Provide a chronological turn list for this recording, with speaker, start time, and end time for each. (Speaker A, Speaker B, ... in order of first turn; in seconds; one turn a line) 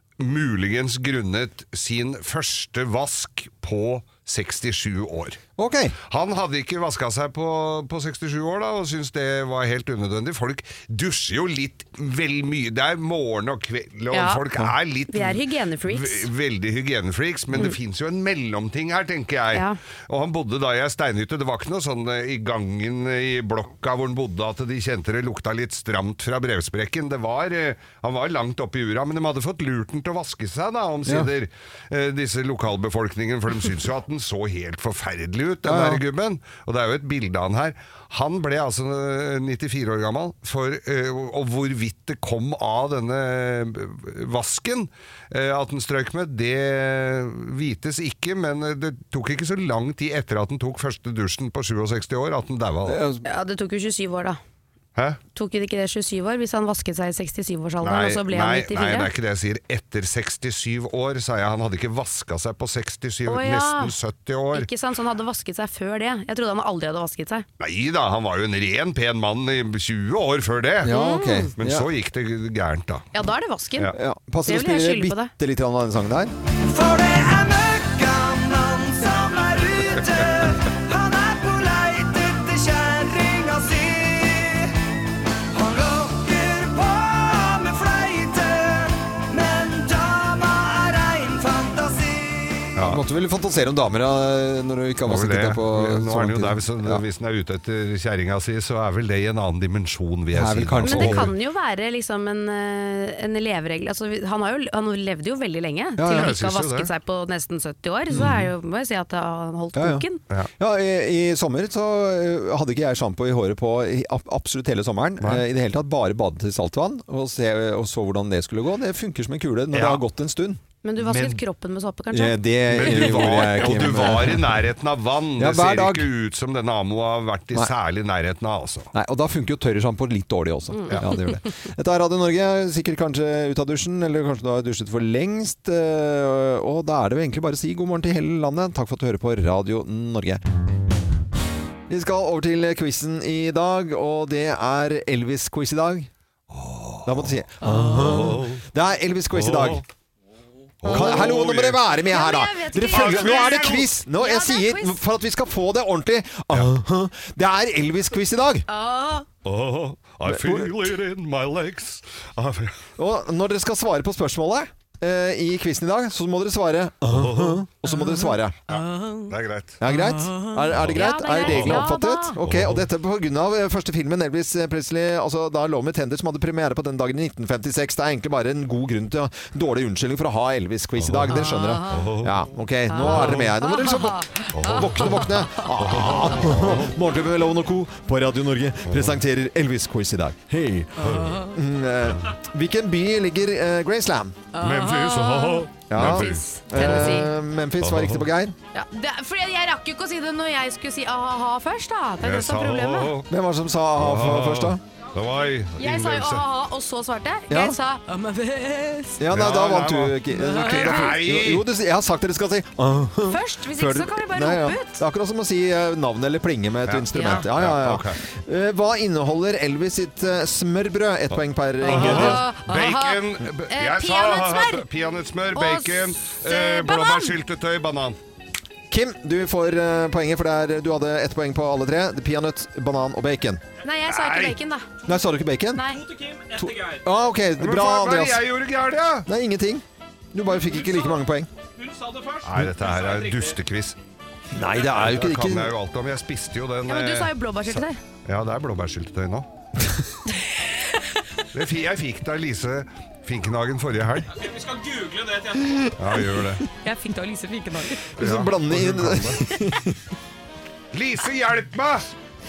Speaker A: 0.2-5.4
Speaker B: 5.6-5.9
Speaker A: 6.1-53.0
Speaker C: 14.1-14.4
Speaker C: 15.1-16.3
Speaker B: 35.6-36.0
Speaker B: 52.9-53.2
Speaker C: 53.2-54.4
Speaker C: 55.4-59.1
Speaker A: 57.8-64.7
Speaker C: 63.3-63.9
Speaker C: 64.5-67.5
Speaker A: 67.6-70.9
Speaker B: 70.8-71.9
Speaker C: 70.9-71.5
Speaker A: 71.6-73.1
Speaker C: 73.1-73.9
Speaker B: 73.9-76.3
Speaker C: 74.5-75.3
Speaker D: 76.7-84.7
Speaker D: 85.5-92.7
Speaker A: 92.8-93.0
Speaker B: 92.8-97.0
Speaker A: 95.1-101.3
Speaker B: 100.3-101.3
Speaker C: 100.8-110.2
Speaker B: 106.0-106.3
Speaker A: 106.1-106.9
Speaker A: 108.1-108.5
Speaker B: 109.7-110.0
Speaker B: 110.6-120.6
Speaker A: 119.7-120.0
Speaker C: 120.8-123.5
Speaker A: 121.0-121.4
Speaker B: 122.1-124.6
Speaker A: 122.7-128.9
Speaker B: 125.4-126.1
Speaker B: 128.9-140.4
Speaker C: 130.7-131.2
Speaker B: 141.9-146.1
Speaker A: 146.5-147.3
Speaker B: 147.0-149.8
Speaker C: 147.6-148.1
Speaker A: 147.9-148.6
Speaker A: 149.3-149.8
Speaker A: 150.8-151.8
Speaker B: 150.9-158.6
Speaker C: 150.9-151.2
Speaker C: 152.0-155.0
Speaker A: 152.9-153.9
Speaker C: 158.7-159.2
Speaker A: 159.4-162.8
Speaker B: 160.3-160.9
Speaker B: 163.0-168.6
Speaker A: 167.1-167.6
Speaker C: 167.9-169.3
Speaker A: 168.7-169.8
Speaker B: 169.8-194.4
Speaker C: 169.9-172.4
Speaker A: 170.7-171.8
Speaker A: 172.4-172.9
Speaker A: 181.0-182.4
Speaker C: 181.3-182.1
Speaker C: 182.9-186.1
Speaker A: 183.0-183.5
Speaker A: 184.5-186.9
Speaker A: 188.9-189.2
Speaker C: 191.0-191.5
Speaker A: 191.0-191.4
Speaker C: 194.5-197.3
Speaker A: 194.6-197.2
Speaker B: 195.9-198.6
Speaker A: 197.8-198.2
Speaker C: 198.7-203.1
Speaker A: 202.2-203.3
Speaker B: 203.3-204.8
Speaker A: 204.0-206.4
Speaker C: 205.8-209.2
Speaker B: 207.5-207.8
Speaker B: 209.2-222.4
Speaker A: 209.3-211.7
Speaker C: 210.3-211.1
Speaker C: 213.3-215.0
Speaker A: 216.9-218.2
Speaker C: 217.1-217.4
Speaker A: 221.3-228.2
Speaker C: 221.8-224.8
Speaker C: 225.5-227.3
Speaker B: 228.9-233.6
Speaker C: 233.8-234.9
Speaker A: 234.1-234.5
Speaker B: 235.0-235.9
Speaker C: 235.7-236.1
Speaker B: 236.5-238.4
Speaker A: 237.6-239.3
Speaker B: 239.2-241.5
Speaker A: 242.4-244.0
Speaker B: 244.5-245.7
Speaker A: 244.8-249.5
Speaker C: 246.9-248.0
Speaker A: 251.5-254.3
Speaker A: 256.0-256.6
Speaker C: 256.8-258.1
Speaker B: 258.2-260.0
Speaker A: 258.2-259.4
Speaker A: 260.9-262.1